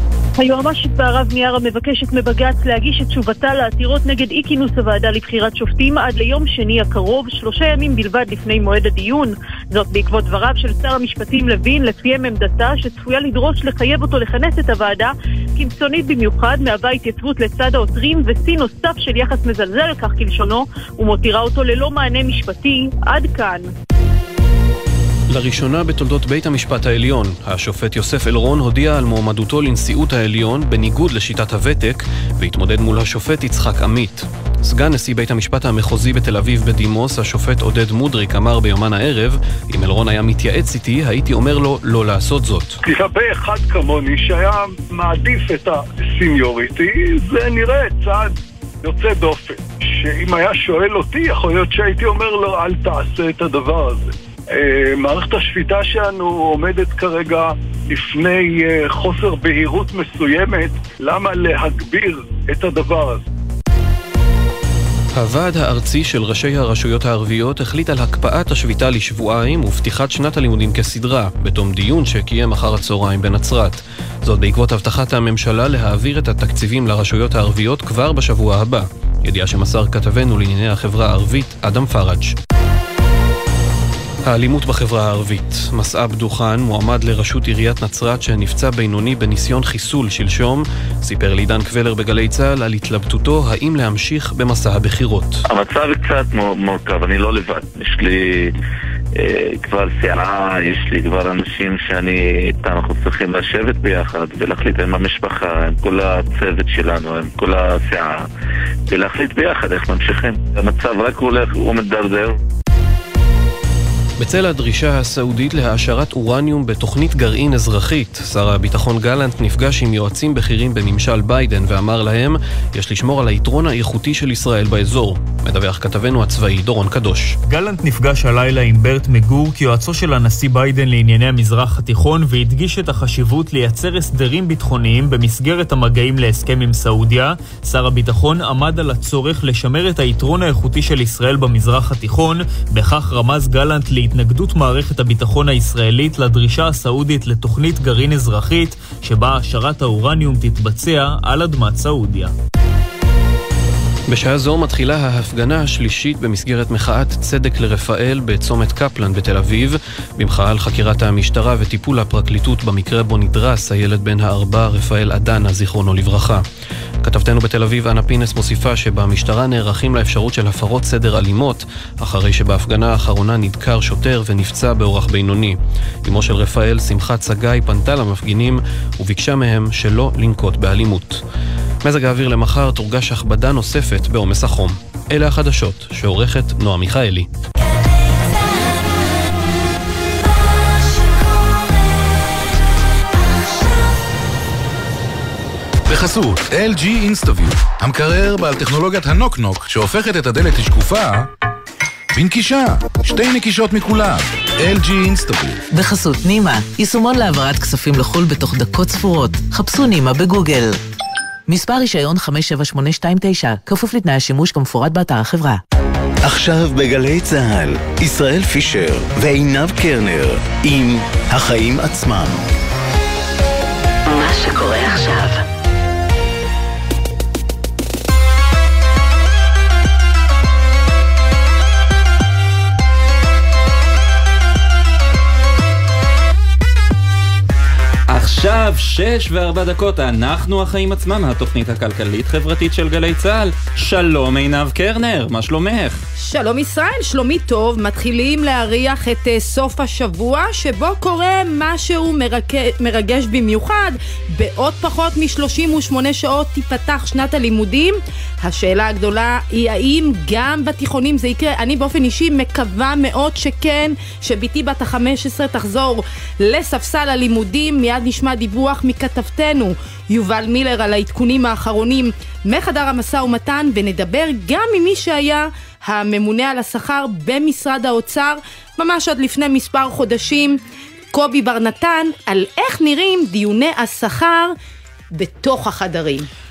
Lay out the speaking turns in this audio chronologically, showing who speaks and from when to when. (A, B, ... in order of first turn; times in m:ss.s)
0:00.4-0:23.7 A
0:25.3-0:42.8 B
0:42.8-1:03.2 C
1:05.2-1:22.4 B
1:24.2-1:35.4 B
1:35.5-1:38.6 D
1:39.2-1:48.2 D
1:48.9-1:52.4 D
1:54.2-2:07.4 B
2:07.5-2:32.3 E
2:34.1-2:46.4 B
2:47.0-3:01.2 B
3:01.8-3:07.3 B
3:15.9-3:21.3 F
3:22.2-3:25.6 F
3:25.7-3:30.8 G
3:31.5-3:35.6 G
3:36.2-3:42.4 H
3:44.1-3:45.4 G
3:58.1-4:06.0 I
4:06.2-4:40.6 J
4:41.1-4:44.5 J
4:45.1-4:46.3 J